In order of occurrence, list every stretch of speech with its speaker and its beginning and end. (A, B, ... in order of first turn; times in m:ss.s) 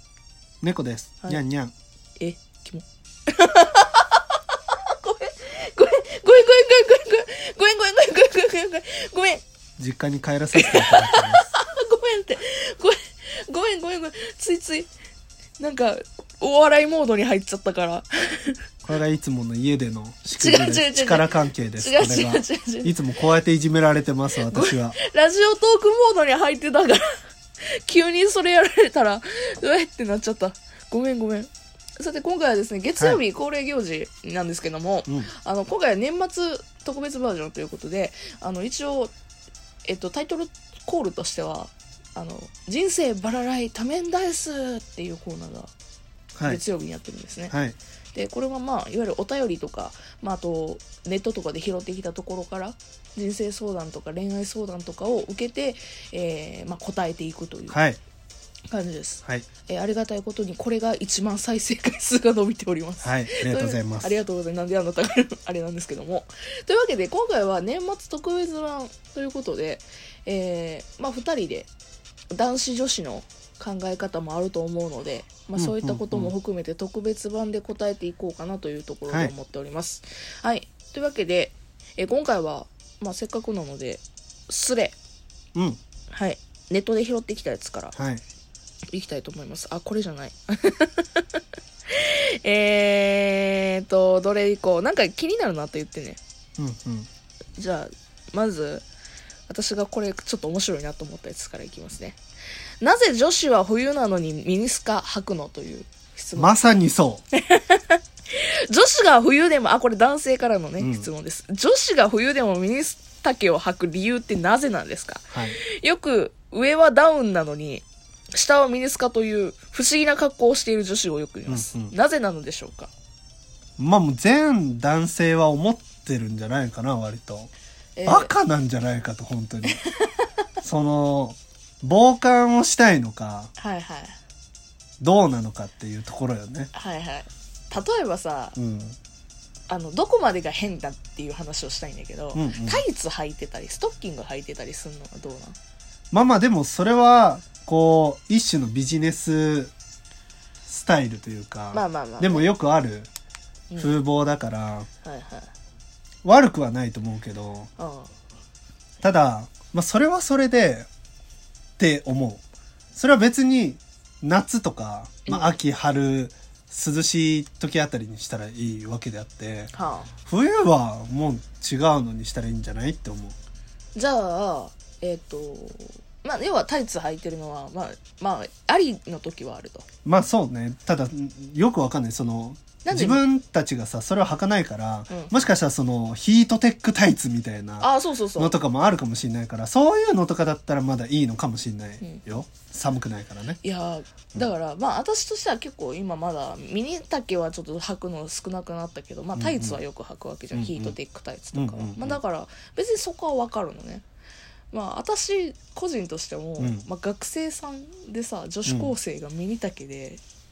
0:00.6-0:01.7 A
0:02.2-0:09.4 B
0:09.8-0:11.5 A
0:10.6-0:14.9 B
0:15.6-0:18.6 B
0:18.8-0:25.0 A
0:20.3-0:23.0 B
0:24.5-0:27.0 B
0:27.6-0:39.1 B
0:39.8-0:45.7 B
0:46.4-0:46.6 A
0:46.4-0:47.5 B
0:47.5-0:47.8 A
0:48.1-0:57.8 B
0:57.7-0:58.0 A
0:58.7-1:11.7 B
1:03.0-1:04.2 A
1:12.3-1:25.0 B
1:15.6-1:16.3 A
1:25.5-1:25.8 A
1:26.1-1:27.9 B
1:27.9-1:28.2 A
1:28.9-1:36.2 B
1:36.6-1:37.1 A
1:37.6-1:38.8 B
1:39.5-1:42.2 B
1:42.8-1:46.6 B
1:46.4-1:47.2 A
1:47.3-2:02.9 B
1:50.8-1:51.1 A
1:55.3-1:55.6 A
2:01.5-2:01.9 A
2:03.8-2:07.5 A
2:08.0-2:08.3 B
2:08.0-2:09.8 A
2:09.8-2:10.3 B
2:10.6-2:13.5 A
2:13.6-2:14.2 B
2:15.0-2:16.7 A
2:16.7-2:18.6 B
2:18.6-2:19.0 A
2:19.7-2:25.6 B
2:22.3-2:22.8 A
2:26.1-2:29.7 A
2:30.6-2:33.1 A
2:31.7-2:32.5 B
2:33.7-2:34.0 B
2:33.8-2:34.9 A
2:35.0-2:35.5 B
2:36.2-2:37.7 A
2:37.8-2:38.1 B
2:39.0-2:40.9 A
2:41.8-2:42.4 A
2:42.9-2:49.7 A
2:45.2-2:45.5 B
2:49.7-2:50.1 B
2:50.2-2:53.3 A
2:53.9-2:59.8 B
3:00.0-3:13.6 A
3:02.8-3:03.2 B
3:05.1-3:05.5 B
3:07.8-3:08.5 B
3:12.0-3:12.4 B
3:13.6-3:24.0 B
3:19.4-3:19.8 A
3:20.5-3:21.0 A
3:21.5-3:22.2 A
3:24.7-3:30.2 B
3:26.6-3:26.8 A
3:28.6-3:28.9 A